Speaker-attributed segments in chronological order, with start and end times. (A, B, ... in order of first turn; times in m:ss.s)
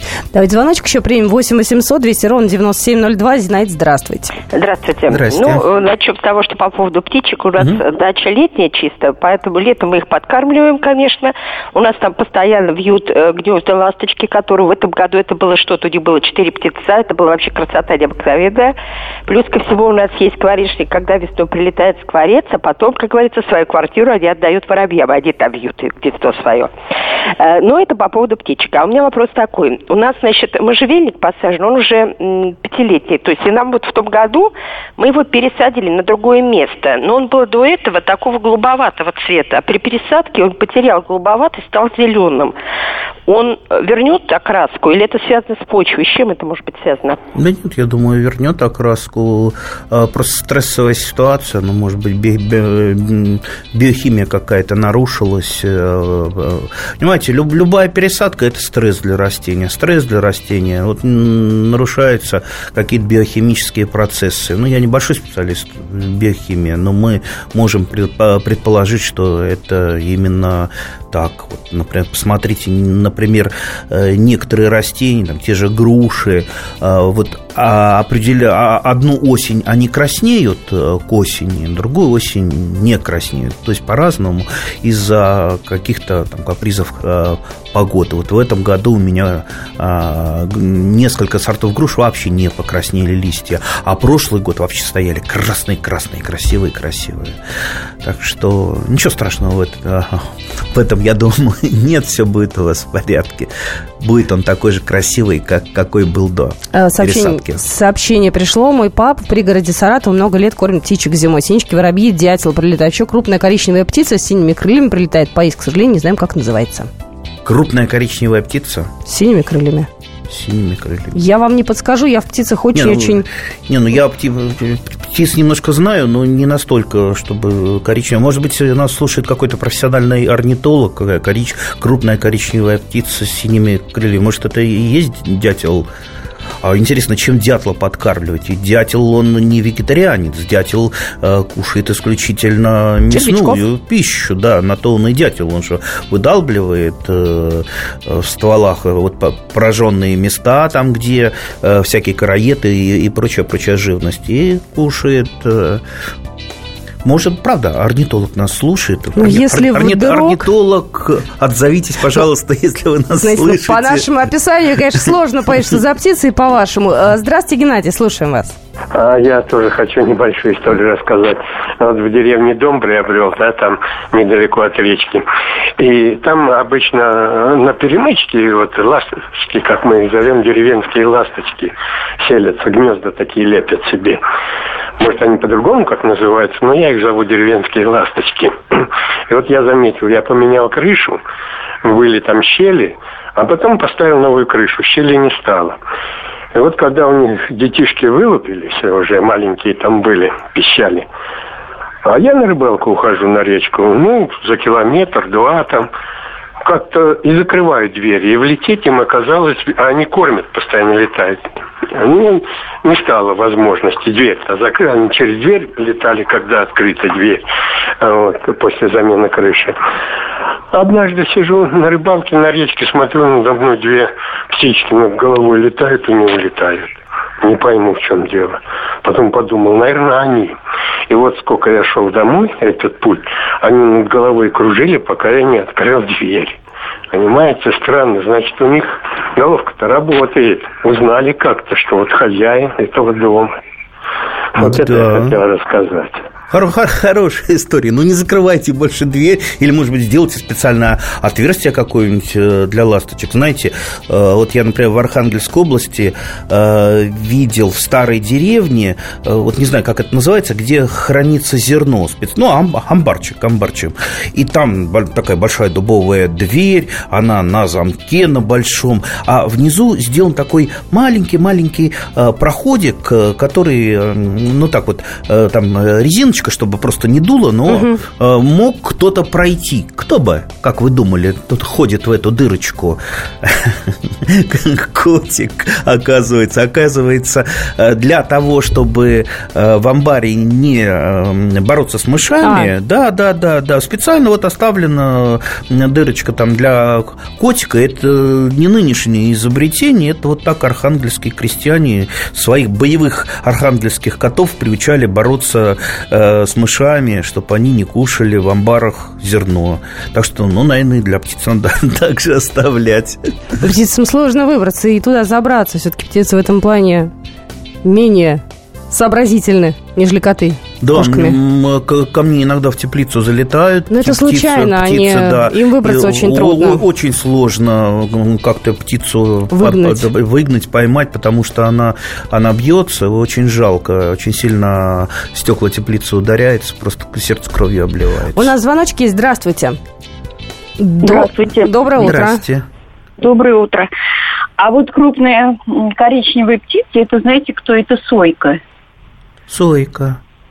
0:00.3-0:04.4 A
0:04.5-0:26.7 B
0:05.1-0:05.7 C
0:27.4-0:42.6 B
0:43.2-0:47.2 B
0:47.3-1:37.4 C
1:38.0-1:47.6 C
1:46.7-1:56.9 A
1:57.4-1:58.9 C
1:59.1-1:59.9 A
2:00.3-2:01.2 C
2:01.1-2:03.2 A
2:02.7-2:15.9 C
2:16.6-2:35.8 C
2:23.1-2:23.6 A
2:37.0-2:44.1 C
2:39.2-2:40.4 A
2:43.2-2:48.6 A
2:48.9-2:55.2 D
2:55.8-3:04.2 D
3:05.0-3:11.2 D
3:11.8-3:15.8 D
3:16.5-3:21.1 D
3:22.0-3:25.9 D
3:26.6-3:37.4 D
3:38.0-3:39.8 D
3:40.7-3:50.6 D
3:51.1-3:56.6 D
3:57.1-4:03.6 D
4:04.6-4:06.2 D
4:04.6-4:05.4 C
4:06.5-5:13.3 C
4:37.7-4:38.0 A
4:52.4-4:52.7 A
5:13.6-5:17.1 A
5:17.8-5:21.4 A
5:20.8-5:38.5 C
5:23.9-5:26.8 A
5:29.5-5:30.1 A
5:38.4-5:39.8 A
5:40.8-5:42.4 A
5:41.0-5:41.7 E
5:42.0-5:42.7 C
5:43.2-5:43.9 E
5:44.6-5:48.6 E
5:49.5-5:50.2 C